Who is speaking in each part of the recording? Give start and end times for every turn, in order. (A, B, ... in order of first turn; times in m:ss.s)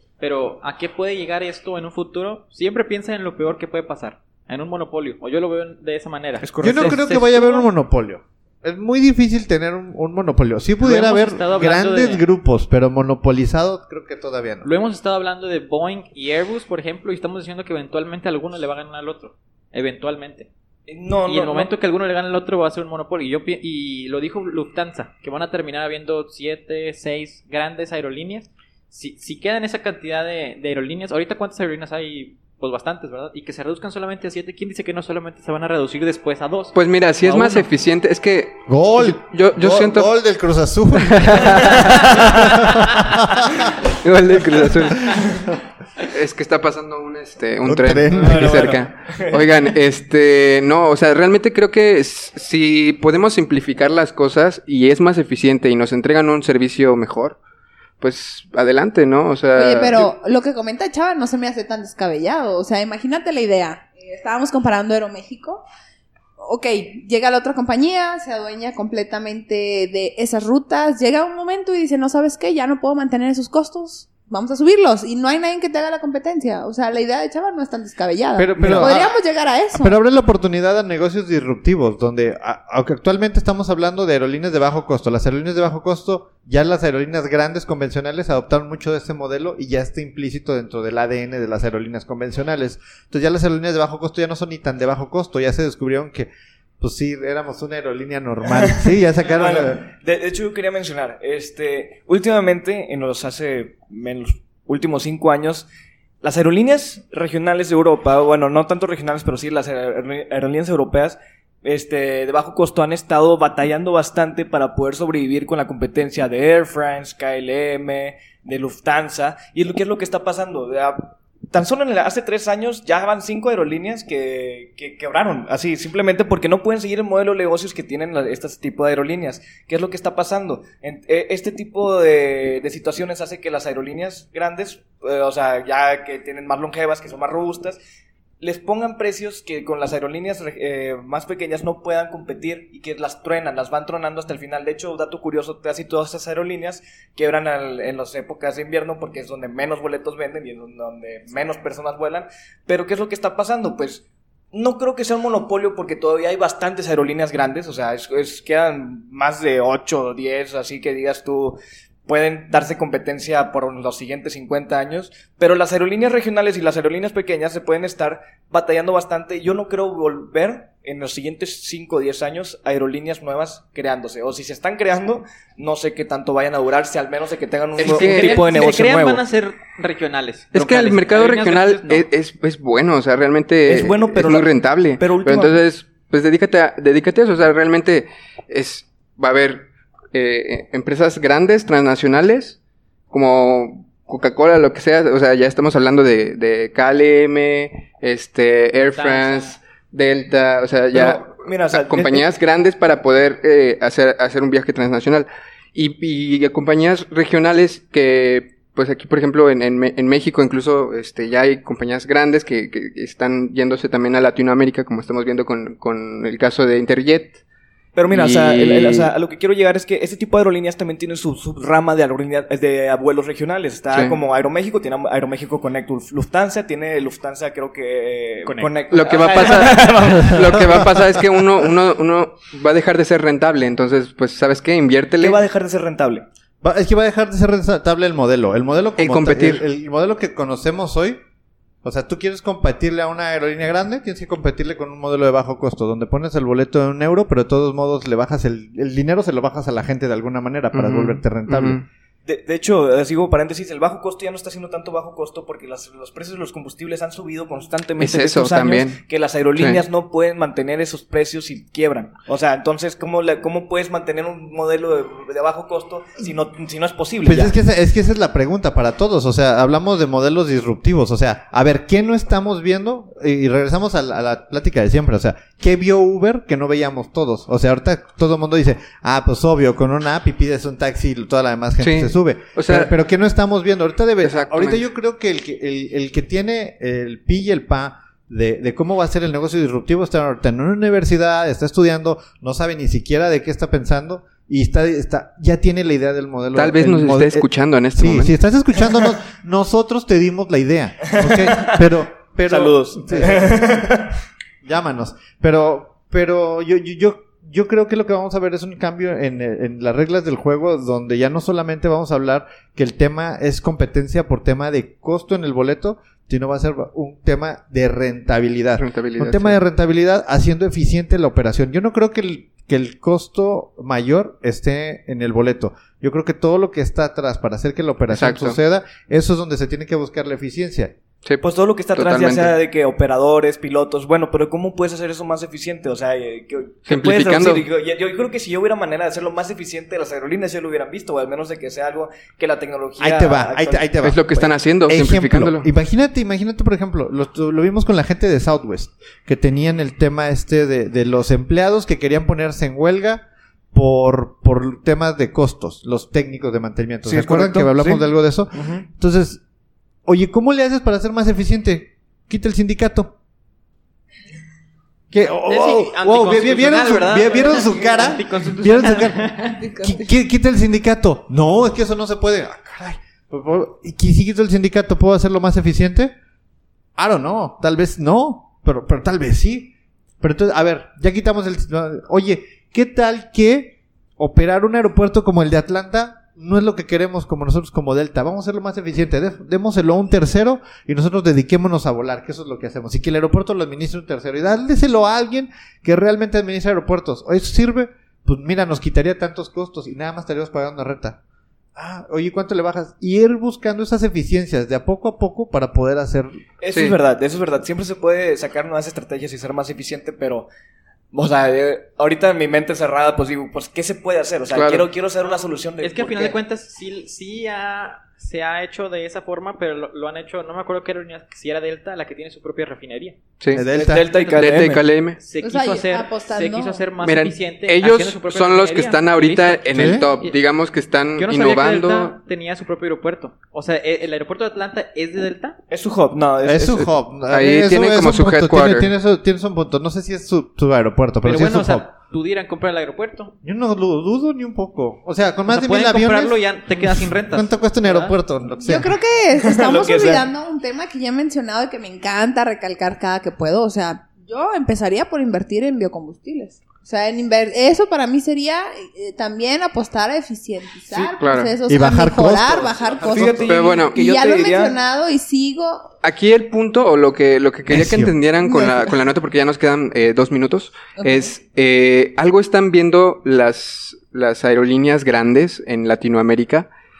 0:00.2-0:07.7 A
0:06.4-0:07.0 B
0:06.6-0:14.7 C
0:10.8-0:12.2 A
0:14.6-0:20.5 A
0:20.9-0:21.7 B
0:21.2-0:37.7 A
0:36.8-0:40.1 D
0:38.7-0:42.3 C
0:41.0-0:43.0 D
0:44.0-0:45.3 D
0:46.0-0:57.4 D
0:47.6-0:48.5 C
0:48.1-0:49.5 B
0:58.0-1:00.1 D
0:59.5-1:05.6 E
1:06.4-1:20.0 E
1:18.4-1:19.1 C
1:18.6-1:19.0 B
1:19.7-1:39.8 C
1:38.6-1:45.7 B
1:46.2-2:17.8 B
2:18.4-2:59.2 B
2:57.8-2:58.5 D
2:57.8-3:02.1 A
3:00.5-3:12.6 D
3:03.6-3:05.6 B
3:13.1-3:37.4 D
3:18.9-3:19.6 A
3:20.9-3:22.3 B
3:38.0-3:51.7 B
3:38.1-3:39.1 D
3:43.9-3:44.2 D
3:48.4-3:48.7 A
3:48.9-3:55.4 D
3:55.2-3:56.3 B
3:56.6-4:01.2 C
3:59.0-3:59.6 D
4:01.8-4:11.8 C
4:10.7-4:11.8 D
4:12.2-4:27.5 B
4:18.0-4:19.0 D
4:19.5-4:19.8 D
4:27.3-5:03.8 C
4:41.8-4:42.9 D
4:44.2-4:44.9 D
4:56.5-4:58.3 D
5:01.2-5:01.7 B
5:02.5-5:04.1 B
5:04.6-5:30.9 C
5:18.8-5:19.6 D
5:28.1-5:28.6 D
5:31.4-5:43.9 B
5:31.9-5:32.6 D
5:36.9-5:37.7 D
5:43.0-5:59.4 C
5:44.0-5:45.7 D
5:57.0-5:58.8 B
6:00.1-6:03.1 C
6:05.1-6:16.1 C
6:05.4-6:09.6 A
6:09.6-6:10.1 E
6:17.0-6:41.2 C
6:41.8-6:46.4 C
6:46.6-6:50.5 B
6:51.1-6:56.4 B
6:54.5-6:54.9 D
6:55.8-7:03.2 A
7:03.5-7:04.1 C
7:03.7-7:04.8 B
7:03.9-7:04.6 A
7:04.4-7:05.2 D
7:05.2-7:10.4 A
7:05.4-7:06.9 E
7:07.0-7:12.1 D
7:09.7-7:10.1 C
7:11.2-7:15.6 A
7:15.7-7:16.9 B
7:16.5-7:21.9 C
7:16.8-7:18.9 D
7:21.2-7:23.3 A
7:23.4-7:28.9 C
7:25.5-7:28.2 A
7:28.6-7:45.9 E
7:29.4-7:30.3 B
7:41.2-7:41.5 D
7:41.7-7:43.5 C
7:43.0-7:44.8 B
7:43.5-7:44.0 D
7:46.0-7:56.7 D
7:47.7-7:48.2 C
7:48.4-7:48.9 E
7:51.0-7:51.3 E